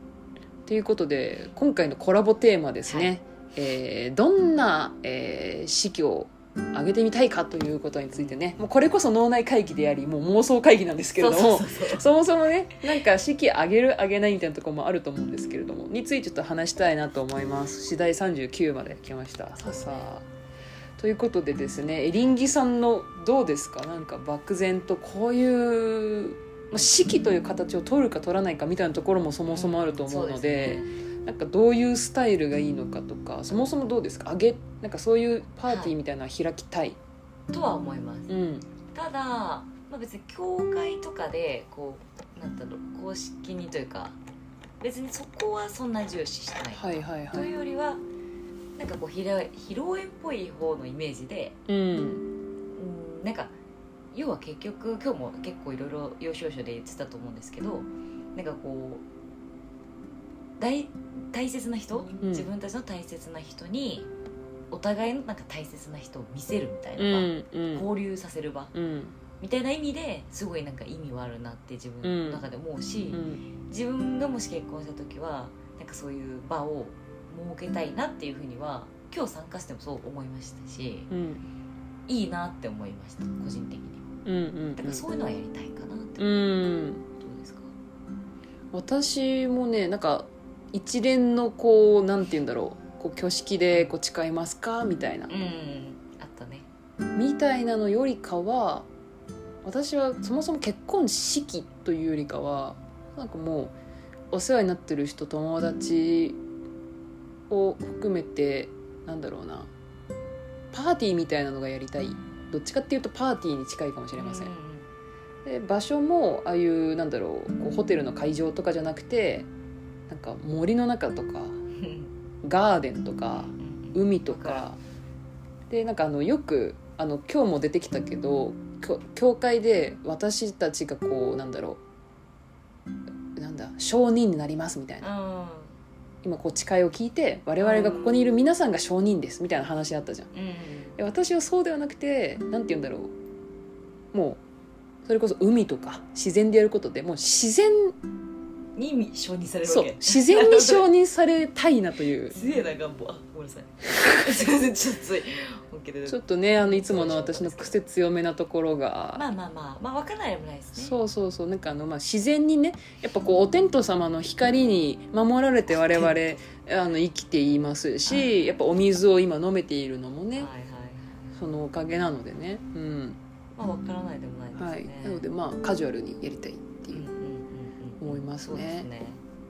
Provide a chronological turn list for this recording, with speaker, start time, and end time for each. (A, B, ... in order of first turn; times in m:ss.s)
0:00.7-0:20.2 A
0:02.8-0:03.1 B
0:08.1-0:08.4 B
0:11.2-0:12.1 B
0:19.6-0:20.1 B
0:21.0-0:37.0 A
0:26.7-0:27.1 B
0:29.5-0:30.9 B
0:35.7-0:35.9 B
0:37.5-0:44.2 B
0:38.3-0:38.6 A
0:44.8-0:48.0 B
0:46.7-0:47.5 A
0:48.8-0:51.6 B
0:51.7-0:52.2 A
0:52.7-0:53.5 B
0:54.1-0:59.0 B
1:00.6-1:04.1 B
1:02.2-1:02.5 A
1:04.7-1:08.7 B
1:07.0-1:07.8 A
1:08.7-1:09.1 A
1:09.4-1:21.1 B
1:12.0-1:12.4 A
1:13.1-1:13.4 A
1:21.1-1:21.4 A
1:22.1-1:24.1 B
1:24.2-1:25.0 A
1:24.8-1:27.7 B
1:26.2-1:27.0 A
1:28.7-1:35.3 A
1:35.3-1:36.7 B
1:37.1-1:38.9 A
1:39.6-1:43.7 A
1:44.3-1:46.4 A
1:47.5-1:49.7 A
1:50.7-1:54.5 A
1:54.2-1:54.9 B
1:55.4-1:59.5 A
2:00.1-2:01.6 A
2:01.7-2:02.1 B
2:02.4-2:04.8 A
2:03.3-2:04.7 B
2:05.7-2:11.8 A
2:13.4-2:15.1 A
2:15.0-2:15.8 B
2:16.2-2:20.3 A
2:17.6-2:18.4 B
2:20.3-2:21.0 B
2:21.0-2:23.1 A
2:24.1-2:24.4 A
2:25.0-2:28.0 A
2:28.8-2:30.8 B
2:29.6-2:32.4 A
2:32.3-2:37.8 B
2:36.1-2:39.2 A
2:39.1-2:41.0 B
2:40.8-2:50.5 A
2:45.7-2:46.4 B
2:48.0-2:48.3 B
2:50.3-2:51.4 B
2:51.3-2:53.2 A
2:53.6-2:55.3 B
2:54.5-2:57.1 A
2:56.9-2:59.2 B
2:58.0-2:58.9 A